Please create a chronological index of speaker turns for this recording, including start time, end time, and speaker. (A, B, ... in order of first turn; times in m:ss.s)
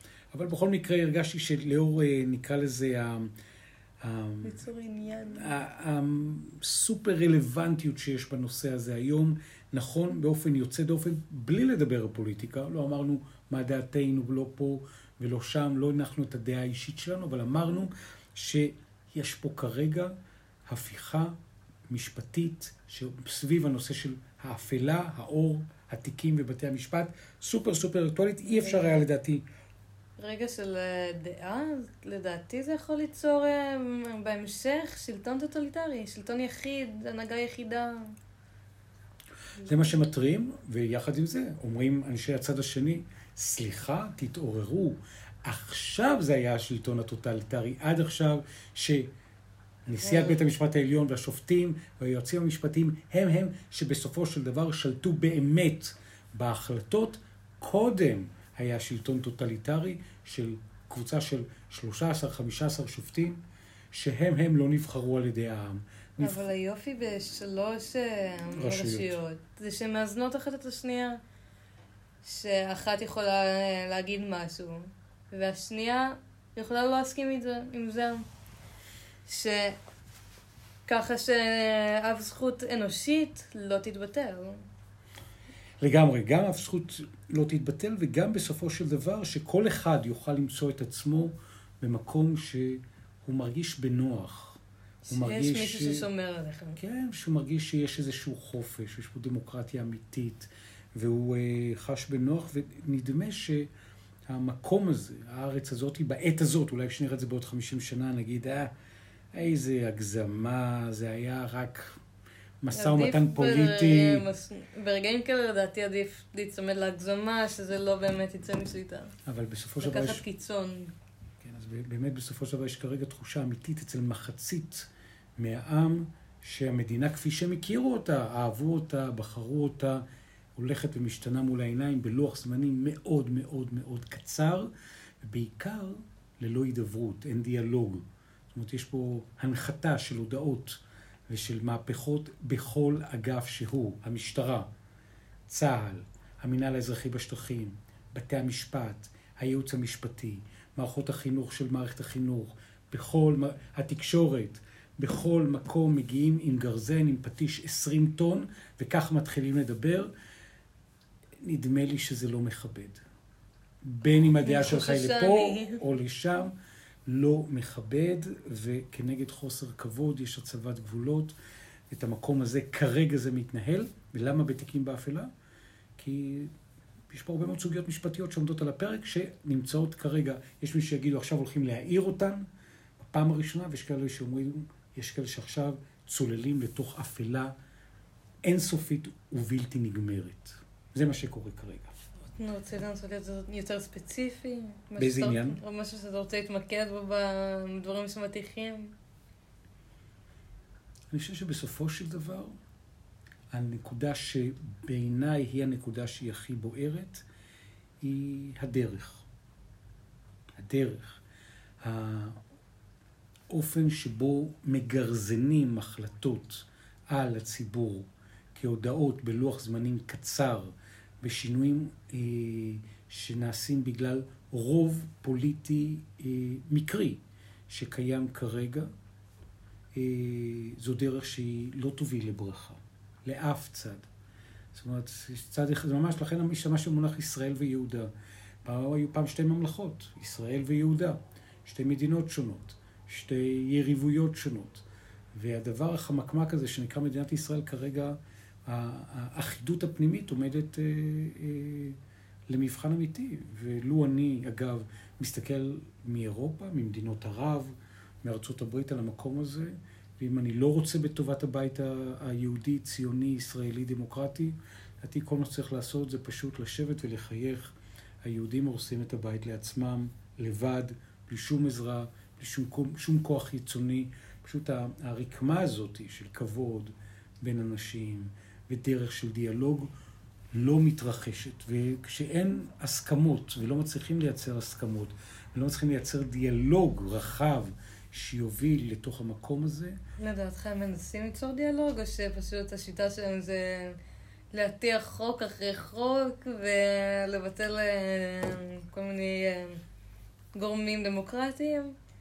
0:00.3-0:03.3 A
0:04.0-0:04.6 A
0:04.4-0:05.6 B
0:05.3-0:20.1 A
0:20.7-0:21.4 A
0:21.9-0:29.4 A
0:28.4-0:29.0 B
0:30.2-0:38.1 B
0:39.6-0:39.9 B
0:39.6-0:49.1 A
0:49.8-1:03.4 A
0:50.0-0:50.4 B
1:03.9-1:06.4 A
1:06.2-1:11.2 B
1:08.5-1:09.2 A
1:12.2-1:18.2 B
1:19.2-1:19.8 B
1:20.9-1:24.6 B
1:25.8-1:36.0 A
1:35.0-1:36.8 B
1:36.8-1:43.7 A
1:44.3-1:48.7 A
1:49.3-1:52.0 A
1:52.6-1:54.2 A
1:52.7-1:59.1 B
1:59.2-2:00.2 A
1:59.8-2:00.9 B
2:01.4-2:10.0 A
2:10.6-2:14.7 A
2:15.2-2:24.7 A
2:25.5-2:40.1 A
2:41.4-2:43.0 A
2:43.8-2:46.5 A
2:44.4-2:45.8 B
2:47.0-2:51.3 A
2:51.9-2:55.3 A
2:56.0-2:56.5 A
2:57.1-3:02.4 A
3:03.0-3:07.5 A
3:08.4-3:11.9 A
3:12.3-3:18.9 B
3:15.0-3:15.6 A
3:21.1-3:22.6 A
3:23.5-3:27.2 A
3:28.0-3:29.2 A
3:30.5-3:31.2 A
3:31.8-3:32.4 A
3:33.5-3:48.9 A
3:49.9-3:54.1 A
3:54.7-3:58.1 A
3:58.6-4:12.0 A
4:12.5-4:39.9 A
4:40.5-4:50.0 A
4:50.2-4:54.0 B
4:54.5-4:59.8 B
5:00.5-5:01.9 B